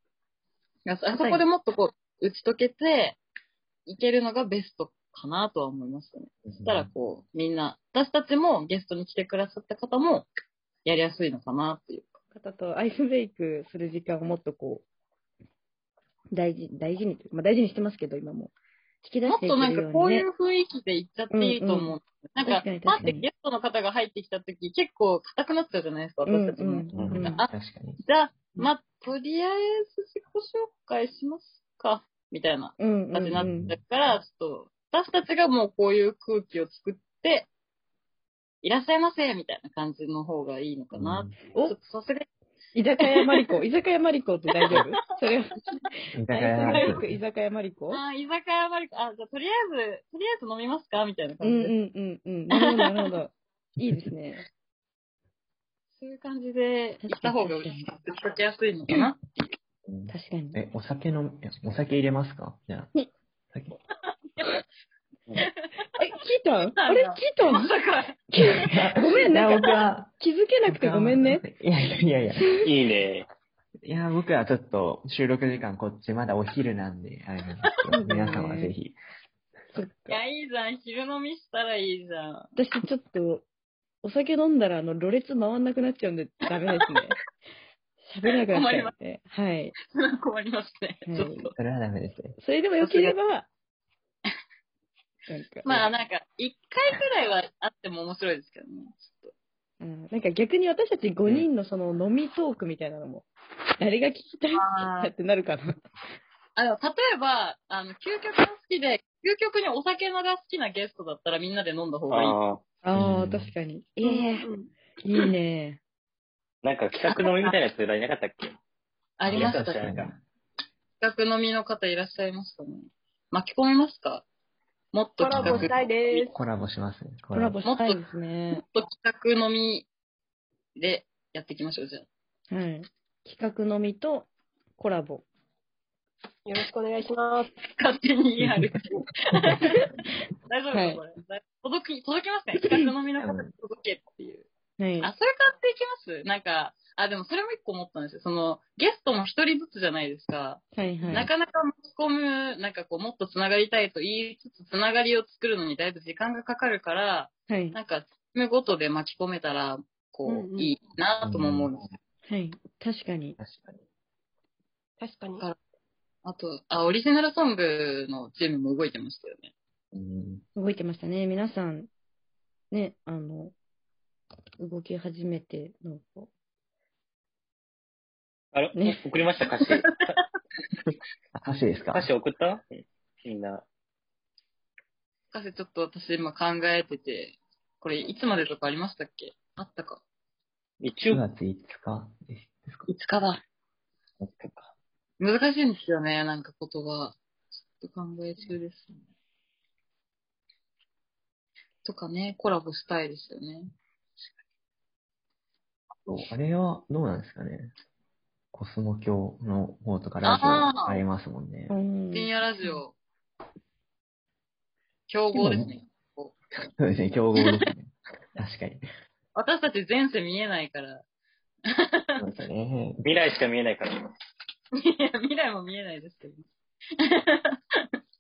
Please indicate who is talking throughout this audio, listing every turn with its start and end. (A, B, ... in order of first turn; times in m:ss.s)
0:00.9-0:03.2 A
0:03.9-0:10.3 A
0:06.5-0:06.9 B
0:10.8-0:12.2 A
0:12.3-0:14.8 C
0:16.3-0:20.3 C
0:19.3-0:27.5 A
0:21.3-0:23.2 C
0:26.2-0:27.4 C
0:26.9-0:28.0 B
0:28.0-0:37.5 A
0:32.8-0:33.7 C
0:33.4-0:33.8 B
0:38.6-0:42.3 A
0:40.9-0:41.4 B
0:42.8-0:45.6 C
0:43.0-0:43.5 A
0:44.5-0:44.9 A
0:46.2-0:47.2 B
0:46.3-0:48.0 C
0:46.6-0:47.0 A
0:47.9-0:51.8 A
0:51.4-0:54.4 C
0:56.0-0:59.3 A
0:57.0-0:57.9 C
0:59.9-1:02.9 B
1:00.1-1:00.6 C
1:05.4-1:05.7 A
1:06.0-1:07.7 C
1:06.8-1:08.6 A
1:08.3-1:11.4 C
1:08.6-1:10.1 B
1:10.7-1:12.5 B
1:12.4-1:12.7 C
1:12.6-1:13.3 D
1:13.8-1:19.0 B
1:17.9-1:18.7 C
1:19.7-1:20.2 C
1:20.1-1:22.5 A
1:22.6-1:23.5 C
1:24.0-1:27.2 C
1:28.0-1:29.8 C
1:28.5-1:28.9 A
1:29.8-1:31.5 A
1:31.1-1:31.5 C
1:31.6-1:32.4 B
1:32.4-1:33.5 C
1:32.8-1:33.2 A
1:35.3-1:35.9 C
1:35.6-1:39.3 A
1:39.8-1:45.8 C
1:44.5-1:45.1 A
1:46.6-1:52.4 A
1:52.1-1:52.6 D
1:52.8-1:54.5 C
1:52.9-1:53.5 B
1:54.0-1:54.7 E
1:55.0-1:55.8 C
1:56.6-1:58.6 D
1:57.1-1:57.5 A
1:59.2-1:59.9 A
1:59.3-1:59.9 D
1:59.3-2:00.2 B
2:01.0-2:04.3 A
2:04.9-2:06.3 A
2:05.2-2:06.4 E
2:05.4-2:05.7 B
2:06.3-2:07.6 B
2:07.3-2:08.6 C
2:07.6-2:09.9 A
2:10.8-2:12.1 A
2:12.5-2:15.2 C
2:16.5-2:17.5 E
2:17.7-2:19.9 A
2:20.5-2:24.5 A
2:20.7-2:21.0 C
2:23.2-2:23.5 B
2:24.8-2:25.1 C
2:25.0-2:41.8 A
2:30.8-2:31.3 C
2:37.5-2:37.8 C
2:40.3-2:40.7 E
2:41.2-2:41.9 B
2:42.3-2:43.4 C
2:43.4-2:43.8 B
2:45.0-2:45.4 E
2:46.2-2:49.5 A
2:49.9-2:50.4 B
2:50.6-2:51.9 C
2:52.7-2:53.5 C
2:54.6-2:56.3 C
2:58.5-3:00.2 D
3:01.4-3:02.1 B
3:01.9-3:03.6 D
3:05.3-3:10.0 A
3:10.8-3:11.2 D
3:11.1-3:12.9 B
3:12.9-3:13.4 A
3:14.2-3:14.7 D
3:15.2-3:17.2 A
3:17.8-3:19.0 A
3:21.8-3:23.7 A
3:26.1-3:27.7 B
3:28.5-3:31.8 B
3:30.2-3:31.0 A
3:31.7-3:32.8 C
3:32.1-3:33.0 A
3:35.1-3:36.4 A
3:35.4-3:35.7 B
3:36.8-3:38.8 B
3:39.4-3:41.0 A
3:41.7-3:42.1 A
3:42.2-3:43.0 B
3:43.0-3:44.0 D
3:44.8-3:46.5 A
3:47.0-3:47.9 A